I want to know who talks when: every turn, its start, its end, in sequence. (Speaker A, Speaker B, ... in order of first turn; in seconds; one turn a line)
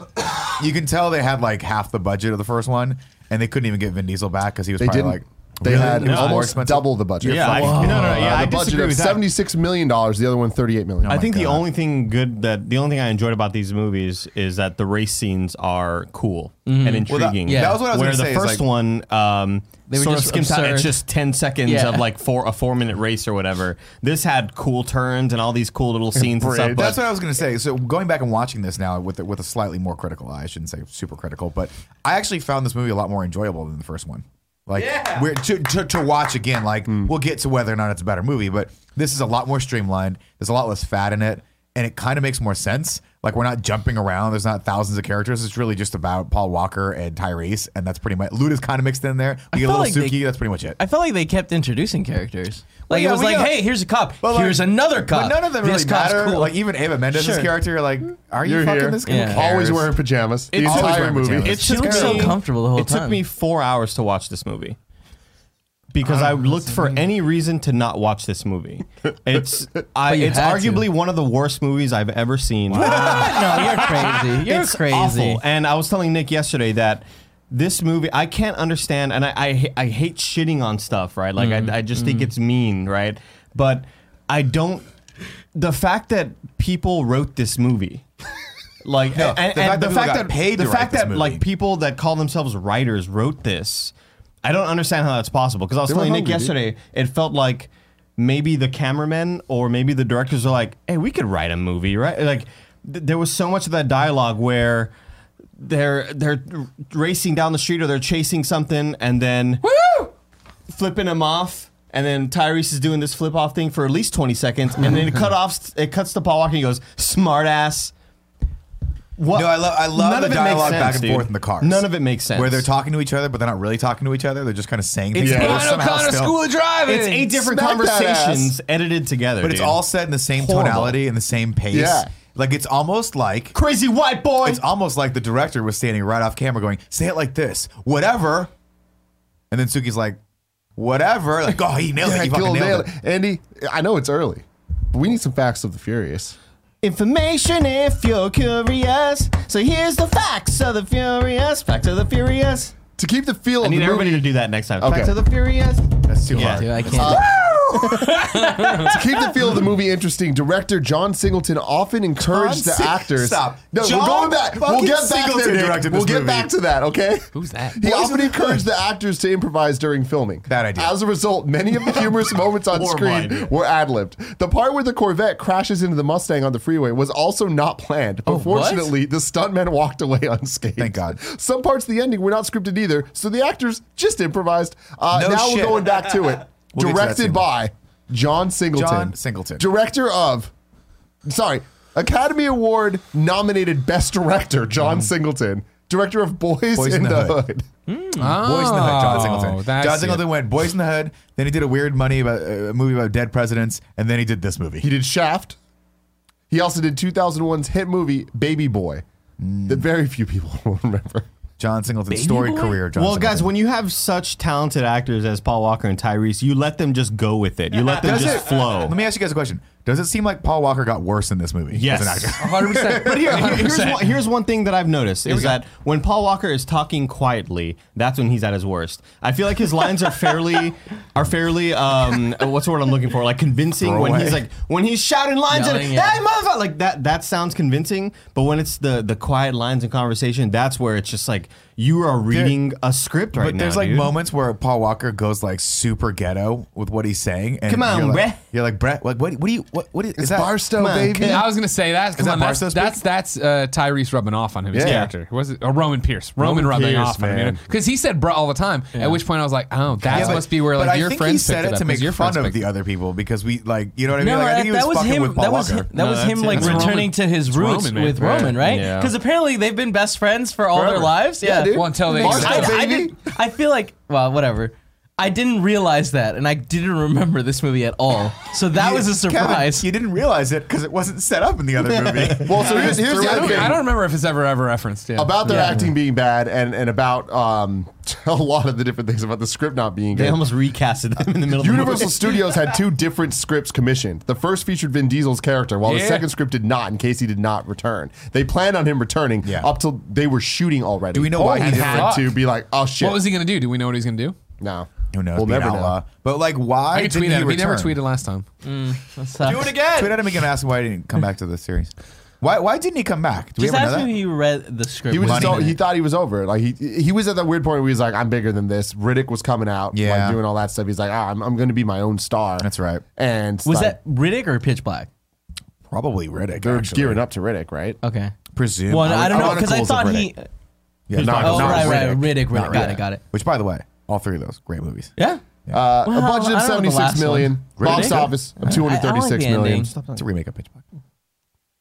Speaker A: 0.4-8.4
Speaker B: 4.8-11.6
Speaker C: 5.6-6.6
Speaker C: 7.2-9.3
Speaker D: 7.6-8.2
Speaker A: 11.0-11.6
Speaker C: 11.1-27.0
Speaker D: 16.7-17.9
Speaker A: 17.1-18.6
Speaker D: 19.9-21.0
Speaker D: 21.6-22.1
Speaker B: 26.1-27.0
Speaker A: 26.8-50.8
Speaker D: 34.8-35.3
Speaker D: 49.5-50.2
Speaker D: 50.8-57.5
Speaker A: 52.9-60.0
Speaker B: 58.4-61.7
Speaker D: 59.0-59.5
Speaker A: 60.5-62.4
Speaker C: 60.5-64.8
Speaker D: 61.5-63.2
Speaker C: 65.9-84.9
Speaker D: 70.0-70.9
Speaker E: 72.8-73.5
Speaker D: 72.8-75.4
Speaker D: 81.4-82.3
Speaker C: 85.5-88.1
Speaker C: 88.8-104.9
Speaker A: 89.1-91.4
Speaker B: 95.9-96.6
Speaker C: 105.6-109.6
Speaker E: 109.6-110.1
Speaker C: 110.7-117.9
Speaker C: 119.2-122.7
Speaker A: 119.3-126.4
Speaker E: 125.1-127.4
Speaker B: 125.2-125.7
Speaker C: 126.9-129.8
Speaker B: 127.4-128.5
Speaker A: 129.4-133.6
Speaker B: 130.3-131.0
Speaker B: 131.7-132.1
Speaker C: 133.5-134.6
Speaker A: 134.4-138.5
Speaker A: 139.5-140.2
Speaker A: 140.8-142.9
Speaker B: 142.0-146.4
Speaker C: 146.8-152.8
Speaker B: 153.0-155.2
Speaker C: 153.6-156.8
Speaker A: 156.1-157.3
Speaker D: 156.4-157.3
Speaker B: 156.9-190.5
Speaker E: 157.4-159.1
Speaker A: 162.2-166.5
Speaker E: 167.3-168.3
Speaker A: 170.5-171.0
Speaker C: 172.7-173.5
Speaker D: 178.3-178.9
Speaker A: 180.8-181.2
Speaker A: 185.1-186.1
Speaker A: 186.7-187.5
Speaker A: 188.7-189.7
Speaker B: 191.2-197.7
Speaker A: 196.7-197.4
Speaker D: 197.9-198.4
Speaker E: 198.2-200.3
Speaker A: 198.2-204.9
Speaker B: 204.8-205.6
Speaker B: 206.5-209.0
Speaker A: 209.4-209.9
Speaker B: 209.7-211.3
Speaker A: 211.6-213.6
Speaker D: 212.1-212.8
Speaker C: 212.9-219.0
Speaker A: 217.9-222.7
Speaker C: 221.7-244.1
Speaker E: 222.4-224.3
Speaker E: 225.3-225.6
Speaker A: 233.8-234.4
Speaker D: 235.5-236.2
Speaker A: 242.3-242.6
Speaker A: 243.3-250.7
Speaker C: 247.7-248.4
Speaker B: 250.2-251.6
Speaker C: 250.7-251.5
Speaker E: 251.2-262.6
Speaker A: 252.2-253.0
Speaker B: 254.7-255.1
Speaker C: 254.8-255.1
Speaker B: 256.4-257.6
Speaker D: 258.9-259.2
Speaker A: 260.1-265.9
Speaker B: 260.1-260.4
Speaker D: 264.2-279.9
Speaker C: 265.9-267.1
Speaker E: 266.5-268.5
Speaker C: 268.2-269.1
Speaker A: 270.8-271.2
Speaker B: 271.4-273.1
Speaker E: 271.7-272.8
Speaker A: 272.2-272.9
Speaker A: 278.7-283.8
Speaker C: 281.9-282.7
Speaker B: 282.4-283.8
Speaker E: 282.7-285.4
Speaker B: 285.2-290.5
Speaker D: 285.4-285.9
Speaker C: 290.1-292.4
Speaker B: 291.5-303.3
Speaker E: 295.9-296.3
Speaker A: 299.4-299.7
Speaker A: 301.1-302.2
Speaker E: 301.4-302.4
Speaker E: 303.0-304.4
Speaker B: 304.6-306.0
Speaker A: 305.1-308.0
Speaker E: 306.9-308.5
Speaker D: 308.6-309.9
Speaker A: 309.4-314.2
Speaker C: 309.7-310.1
Speaker D: 313.6-315.8
Speaker B: 315.1-324.0
Speaker A: 315.1-315.8
Speaker A: 319.9-320.4
Speaker A: 322.6-323.0
Speaker D: 323.6-325.1
Speaker A: 325.9-327.2
Speaker B: 326.6-328.0
Speaker D: 328.0-328.3
Speaker A: 328.6-330.3
Speaker D: 328.9-330.5
Speaker B: 329.3-329.7
Speaker A: 331.1-335.1
Speaker B: 331.1-332.1
Speaker C: 331.2-331.8
Speaker D: 331.3-333.2
Speaker B: 335.7-339.9
Speaker D: 336.0-339.9
Speaker A: 337.8-338.4
Speaker C: 339.9-340.3
Speaker A: 340.1-340.7